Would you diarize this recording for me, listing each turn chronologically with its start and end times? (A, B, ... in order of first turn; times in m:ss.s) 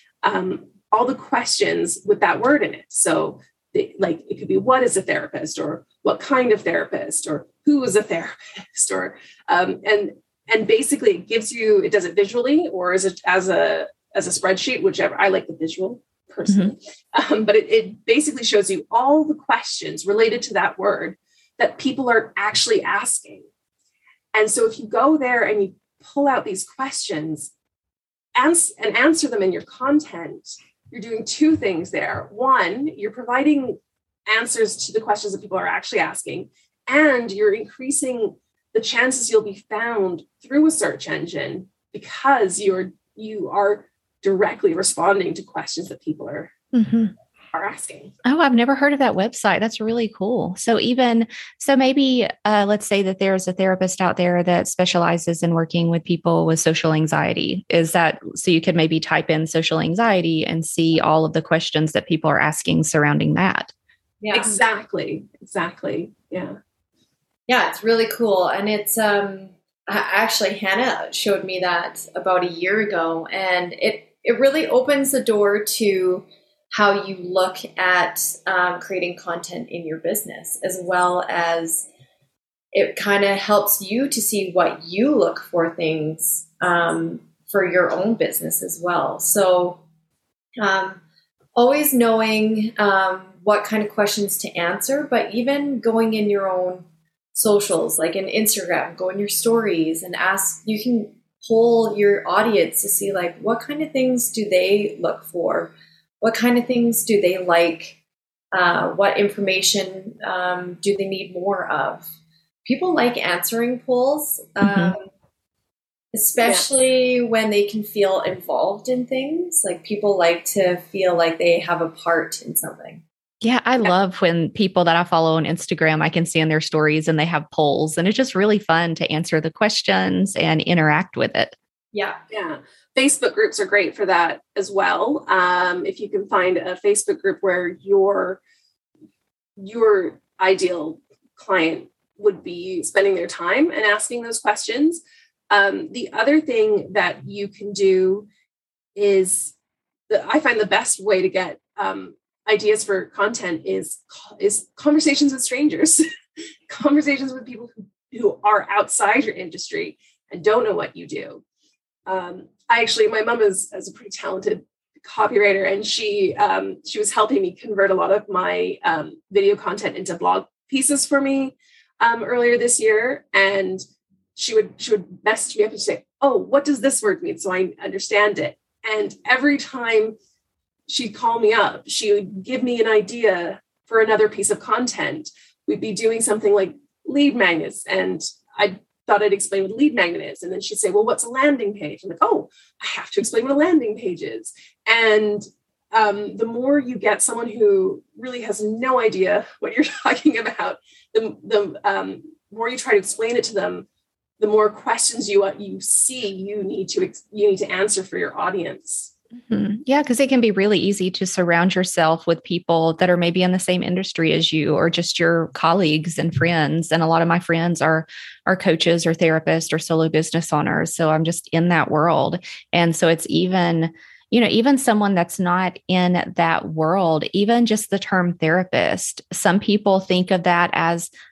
0:00.2-0:23.4 A
0:16.5-0:16.7 B
0:24.3-0:27.5 A
0:28.3-0:46.5 A
0:46.7-0:47.1 B
0:47.5-0:48.1 A
0:48.2-1:03.7 B
1:04.2-1:04.5 C
1:04.3-1:06.6 A
1:07.5-1:21.9 C
1:22.7-1:29.8 C
1:30.6-1:31.0 C
1:31.6-1:48.0 C
1:48.5-1:52.1 C
1:52.6-1:55.1 C
1:54.6-1:54.9 B
1:56.1-2:03.0 C
2:03.4-2:11.5 B
2:11.9-2:12.2 C
2:12.3-2:18.4 A
2:19.6-2:28.3 A
2:29.0-2:29.5 A
2:30.1-2:36.0 A
2:36.7-2:41.4 A
2:42.0-2:53.8 A
2:54.4-3:00.2 A
3:00.9-3:23.8 A
3:24.4-3:29.1 A
3:29.4-3:51.1 B